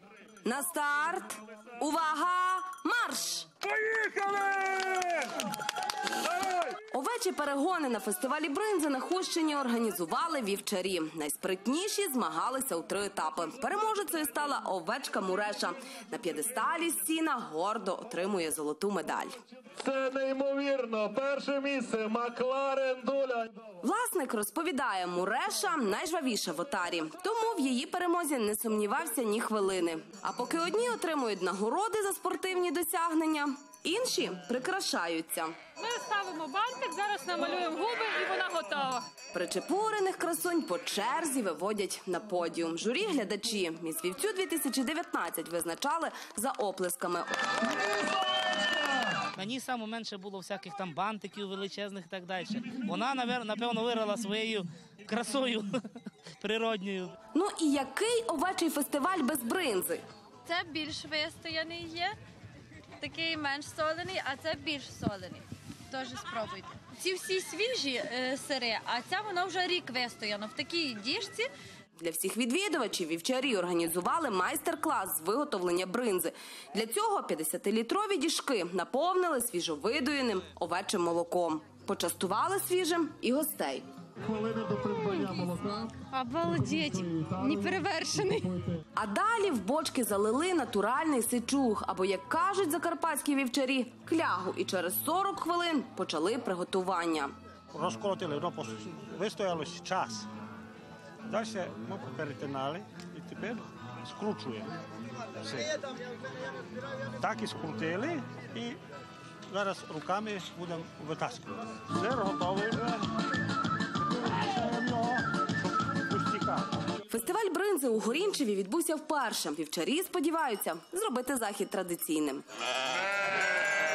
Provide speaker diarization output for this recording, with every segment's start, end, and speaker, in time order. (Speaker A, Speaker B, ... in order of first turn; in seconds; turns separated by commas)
Speaker A: 0.4-3.5, Speaker B: 3.8-5.2, Speaker A: 6.9-19.4, Speaker B: 19.8-23.6, Speaker A: 23.8-35.5, Speaker C: 35.8-39.0, Speaker D: 35.9-39.0, Speaker A: 39.3-47.3, Speaker E: 49.3-55.7, Speaker E: 56.4-57.1, Speaker A: 57.3-60.0, Speaker D: 60.4-62.1, Speaker D: 63.0-71.5, Speaker A: 72.0-83.8, Speaker B: 84.2-85.9, Speaker D: 84.9-88.5, Speaker B: 86.5-87.8, Speaker A: 89.0-97.3, Speaker F: 97.7-100.3, Speaker F: 101.3-104.7, Speaker F: 105.4-105.7, Speaker F: 107.2-108.8, Speaker F: 109.5-113.0, Speaker F: 114.2-116.7, Speaker A: 117.1-122.4